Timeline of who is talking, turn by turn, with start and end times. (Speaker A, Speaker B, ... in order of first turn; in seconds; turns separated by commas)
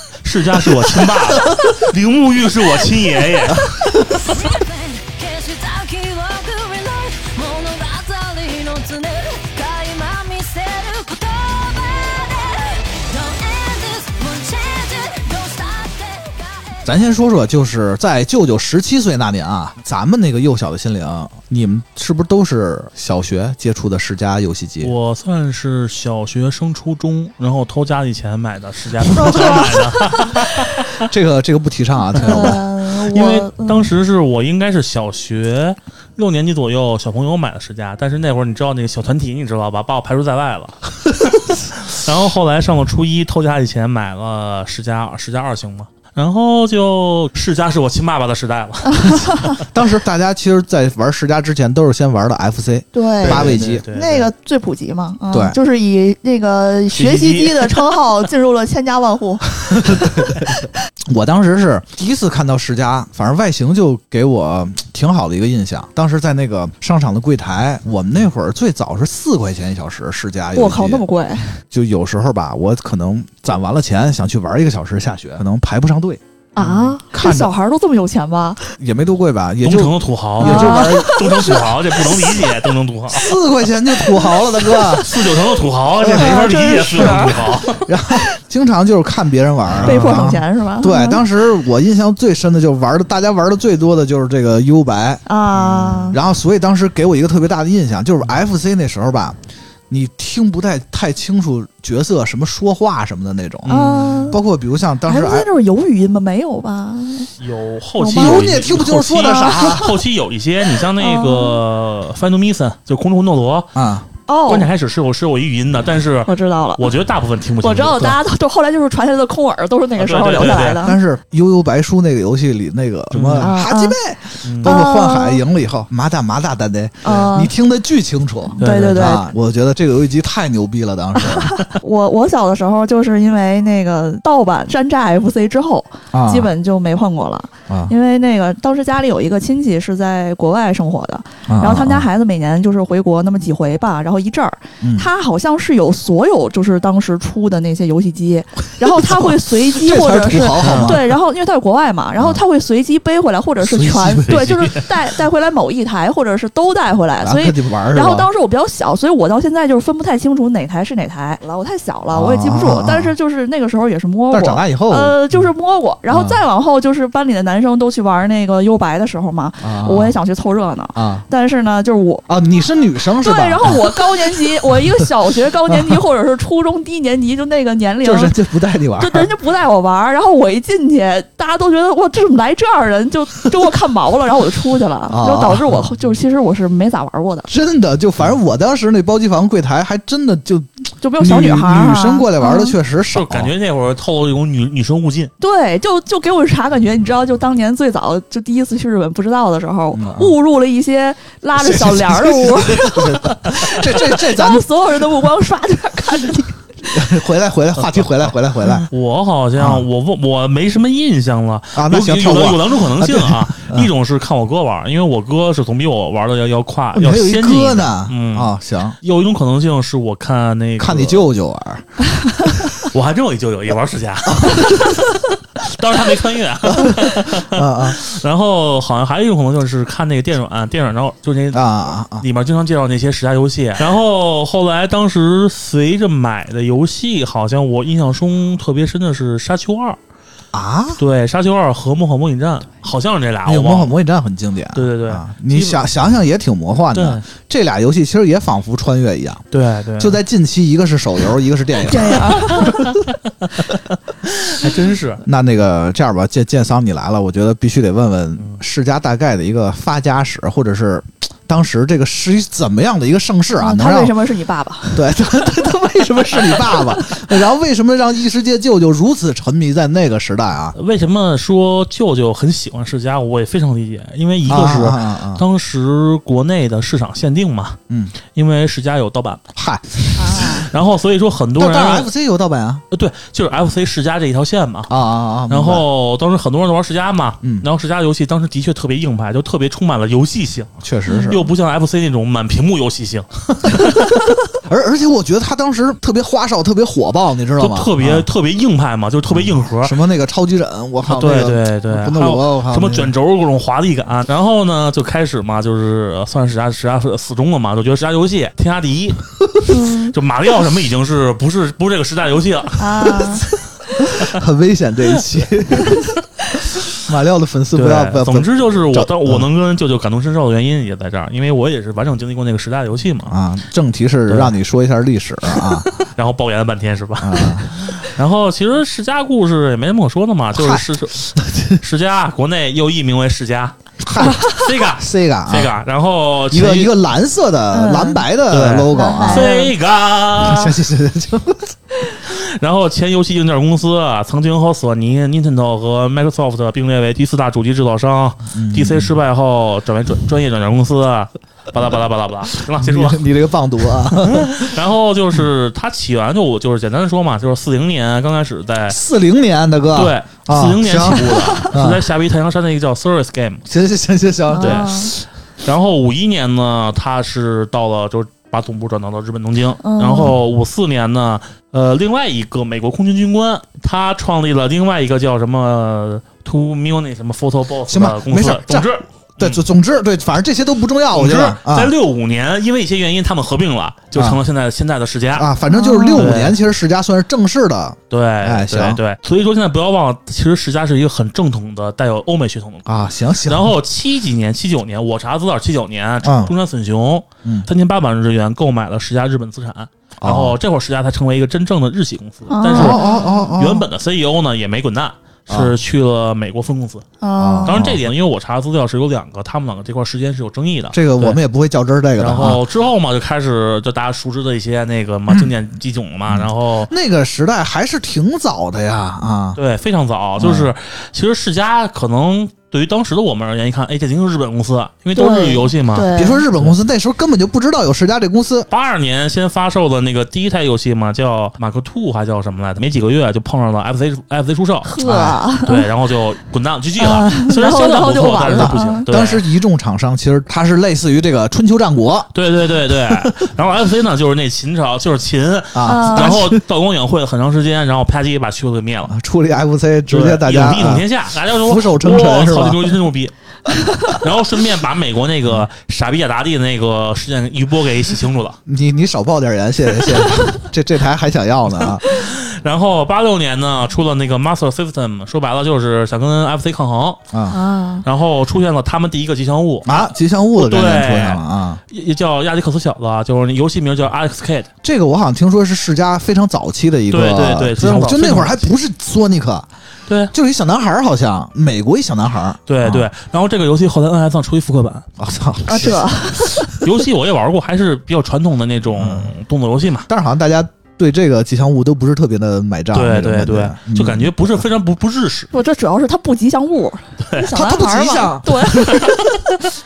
Speaker A: 0.2-4.2, Speaker B: 4.3-16.8, Speaker C: 16.8-24.9, Speaker A: 24.8-31.0, Speaker C: 29.2-29.7, Speaker D: 29.2-29.7, Speaker C: 31.0-32.6, Speaker A: 32.2-32.6, Speaker D: 32.2-33.9, Speaker A: 33.1-49.5, Speaker D: 49.0-49.6, Speaker C: 49.6-53.8, Speaker D: 52.9-60.5, Speaker A: 53.2-54.3, Speaker C: 55.3-55.6, Speaker A: 56.9-57.8, Speaker C: 59.7-71.0, Speaker D: 70.5-71.6, Speaker C: 71.7-76.2, Speaker D: 76.6-78.7, Speaker A: 76.6-77.0, Speaker C: 77.1-77.5, Speaker C: 78.8-81.8, Speaker A: 79.6-83.3, Speaker D: 80.4-81.5, Speaker C: 83.1-85.2, Speaker D: 84.1-84.8, Speaker A: 84.9-87.9, Speaker C: 86.0-95.2, Speaker D: 86.1-87.5, Speaker A: 89.7-90.3, Speaker D: 89.8-91.2, Speaker D: 95.3-96.2, Speaker A: 95.5-96.2, Speaker C: 96.1-99.4, Speaker C: 99.9-103.7, Speaker A: 103.7-104.3, Speaker D: 103.7-104.4, Speaker C: 104.3-105.5, Speaker D: 105.1-107.3, Speaker A: 107.4-113.7, Speaker D: 108.0-108.5, Speaker C: 108.1-109.9, Speaker D: 109.2-109.9, Speaker D: 111.0-111.6, Speaker C: 113.8-114.1, Speaker D: 114.3-114.7, Speaker A: 114.5-118.2, Speaker D: 116.3-116.9, Speaker D: 117.6-121.0, Speaker A: 120.0-120.8, Speaker C: 120.4-131.7, Speaker A: 123.1-123.5, Speaker D: 123.4-124.0, Speaker A: 124.4-124.8, Speaker D: 124.6-125.4, Speaker D: 127.0-127.5, Speaker D: 128.6-129.2, Speaker A: 128.6-129.2, Speaker D: 131.2-172.3, Speaker C: 136.1-136.5, Speaker C: 141.5-142.1, Speaker C: 144.8-145.1, Speaker C: 148.8-151.1, Speaker A: 150.6-151.0, Speaker C: 153.6-154.9, Speaker A: 154.3-154.8, Speaker C: 157.2-158.3, Speaker C: 162.1-163.1, Speaker C: 164.3-165.2, Speaker C: 166.1-166.4, Speaker C: 169.6-170.2, Speaker C: 170.9-171.2, Speaker C: 172.3-175.1, Speaker D: 173.2-178.3, Speaker C: 175.7-176.0, Speaker C: 178.0-179.3, Speaker D: 179.0-187.5, Speaker C: 185.1-185.9, Speaker C: 187.5-193.5, Speaker D: 191.0-192.8, Speaker A: 193.1-195.3, Speaker D: 195.4-206.5, Speaker C: 199.9-200.3, Speaker C: 201.6-204.7, Speaker C: 206.8-208.9, Speaker A: 207.8-221.3, Speaker C: 209.6-209.9, Speaker C: 211.8-213.9, Speaker C: 216.9-219.0, Speaker C: 220.8-222.8, Speaker A: 222.8-240.0, Speaker C: 224.3-224.9, Speaker C: 226.7-228.0, Speaker C: 231.5-232.3, Speaker C: 240.5-241.0, Speaker A: 241.0-243.9, Speaker C: 243.4-249.5, Speaker A: 244.8-245.8, Speaker A: 246.9-247.2, Speaker A: 249.5-250.2, Speaker C: 250.0-252.9, Speaker D: 251.8-252.7, Speaker A: 252.6-252.9, Speaker A: 254.3-255.2, Speaker C: 255.2-264.2, Speaker D: 263.6-265.5, Speaker C: 264.9-270.8, Speaker D: 266.4-267.3, Speaker A: 270.8-277.8, Speaker C: 274.4-275.4, Speaker C: 277.9-278.1, Speaker A: 278.3-279.4, Speaker C: 279.6-280.6, Speaker D: 280.2-280.7, Speaker A: 280.4-282.1, Speaker C: 281.6-282.8, Speaker A: 282.9-284.9, Speaker C: 284.9-285.9, Speaker A: 285.5-290.7, Speaker C: 290.8-291.4, Speaker D: 291.1-291.4, Speaker A: 291.2-294.1, Speaker C: 293.8-298.3, Speaker A: 297.6-300.0, Speaker C: 299.3-303.1, Speaker A: 301.1-309.4, Speaker D: 309.7-310.1, Speaker A: 310.1-313.3, Speaker D: 312.8-313.4, Speaker C: 314.2-316.0, Speaker C: 317.1-319.5, Speaker A: 317.8-323.4, Speaker C: 323.3-325.9, Speaker A: 324.3-324.6, Speaker A: 325.6-336.9, Speaker C: 327.2-327.7, Speaker C: 330.5-331.8, Speaker C: 334.0-335.8, Speaker C: 336.5-339.5, Speaker D: 337.7-338.2, Speaker A: 338.5-340.8, Speaker D: 338.9-339.7, Speaker C: 340.4-341.7, Speaker A: 342.2-353.2, Speaker C: 348.5-349.1, Speaker C: 352.8-354.8, Speaker A: 354.1-359.0, Speaker C: 358.9-362.0, Speaker A: 359.9-363.6, Speaker D: 361.3-361.6, Speaker C: 363.7-365.2, Speaker D: 364.5-365.1, Speaker A: 364.6-364.9, Speaker A: 365.6-379.6, Speaker D: 369.8-370.3, Speaker C: 377.9-381.9, Speaker A: 381.1-385.5, Speaker C: 384.1-384.4, Speaker C: 385.4-389.0, Speaker D: 385.7-386.3, Speaker A: 386.2-386.6, Speaker A: 388.1-392.9, Speaker C: 392.9-393.7, Speaker A: 393.4-407.1, Speaker C: 396.2-396.5, Speaker C: 400.2-400.6, Speaker D: 402.5-403.5, Speaker C: 402.7-403.9, Speaker C: 405.5-405.8, Speaker D: 407.2-407.8, Speaker C: 407.4-408.0, Speaker A: 407.7-411.4, Speaker C: 410.9-412.6, Speaker A: 412.2-416.9, Speaker C: 416.3-419.6, Speaker A: 419.6-426.8, Speaker C: 420.4-420.7, Speaker D: 425.2-426.4, Speaker C: 426.1-428.7, Speaker A: 428.7-439.4, Speaker D: 434.8-435.9, Speaker C: 435.0-435.4, Speaker D: 437.0-439.1, Speaker C: 438.4-442.3, Speaker A: 442.3-449.1, Speaker C: 443.1-443.5, Speaker C: 445.7-446.6, Speaker D: 445.9-446.4, Speaker C: 449.1-453.0, Speaker A: 450.1-453.3, Speaker A: 454.0-458.6, Speaker C: 458.7-462.1, Speaker A: 460.0-460.3, Speaker A: 462.0-467.3, Speaker C: 467.3-467.6, Speaker D: 467.5-468.1, Speaker A: 468.0-474.7, Speaker C: 469.8-471.8, Speaker C: 474.8-479.7, Speaker A: 477.1-478.7, Speaker A: 480.1-480.3, Speaker C: 480.3-483.1, Speaker A: 482.7-485.1, Speaker C: 485.2-486.7, Speaker D: 485.7-486.7, Speaker A: 486.7-490.1, Speaker C: 489.0-489.3, Speaker C: 490.1-494.3, Speaker A: 492.9-495.5, Speaker D: 495.5-499.1, Speaker C: 497.5-499.2